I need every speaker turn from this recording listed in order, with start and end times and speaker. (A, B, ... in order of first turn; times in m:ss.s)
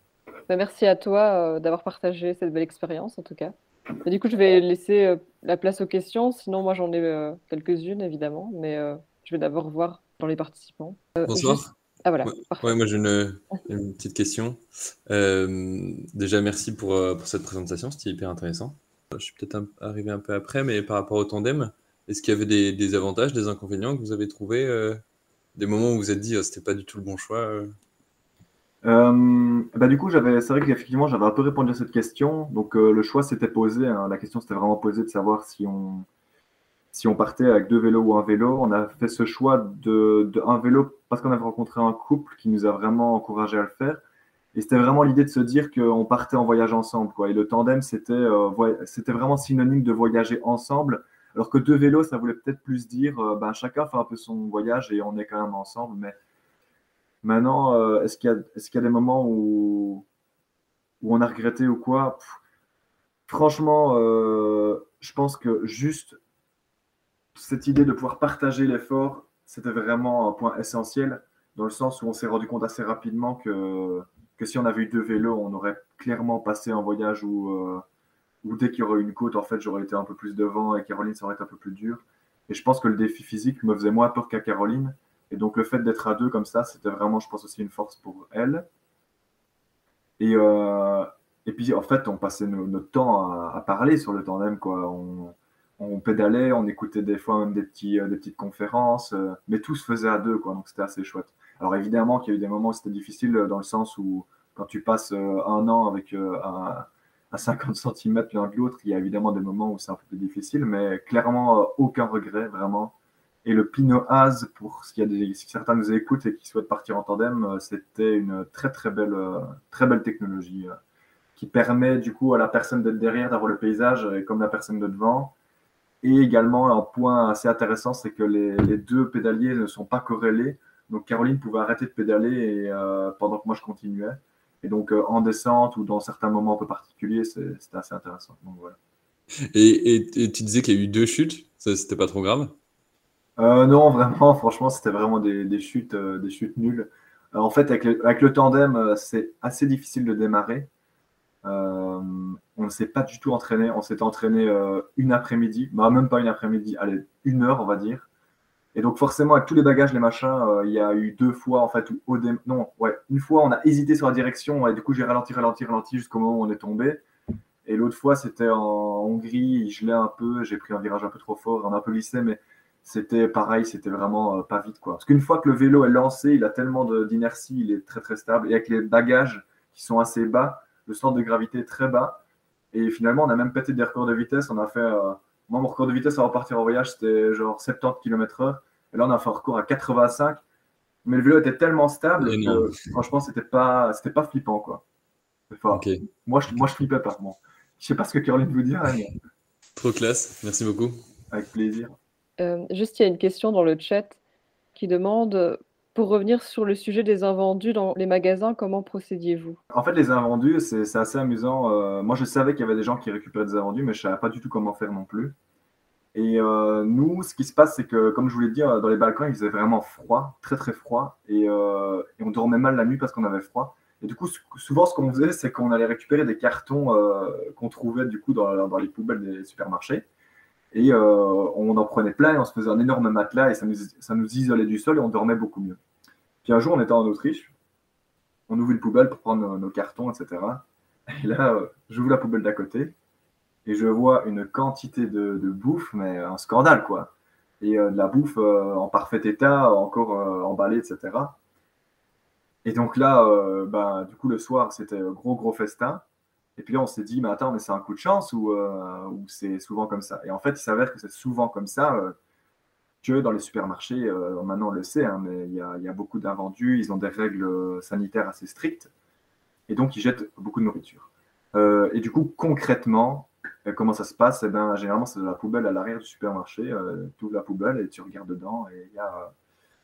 0:00.5-0:12.8 A
0:11.3-0:11.7 B
0:12.3-0:25.0 B
0:25.5-0:27.7 B
0:28.8-0:36.0 C
0:36.9-0:44.0 C
0:44.5-0:56.2 C
0:57.2-1:00.0 C
1:01.0-1:02.4 C
1:03.3-1:06.2 C
1:07.3-1:17.8 C
1:18.4-1:28.6 C
1:30.2-1:52.9 C
1:53.4-2:00.8 C
2:01.4-2:05.3 C
2:06.0-2:18.8 C
2:19.5-2:22.5 B
2:23.4-2:30.7 C
2:31.4-2:38.0 C
2:38.7-2:47.0 C
2:47.6-3:02.2 C
3:02.7-3:10.4 C
3:11.0-3:14.8 C
3:12.2-3:12.7 B
3:15.5-3:19.1 C
3:15.7-3:16.0 B
3:19.8-3:21.0 B
3:21.3-3:21.9 C
3:22.4-3:24.2 A
3:24.7-3:29.6 A
3:29.7-3:35.4 C
3:36.1-3:50.0 C
3:50.7-3:55.8 C
3:56.4-3:57.5 C
3:58.5-4:02.9 C
4:03.6-4:11.4 C
4:12.6-4:16.0 C
4:16.6-4:22.1 C
4:23.0-4:28.9 C
4:29.7-4:39.3 C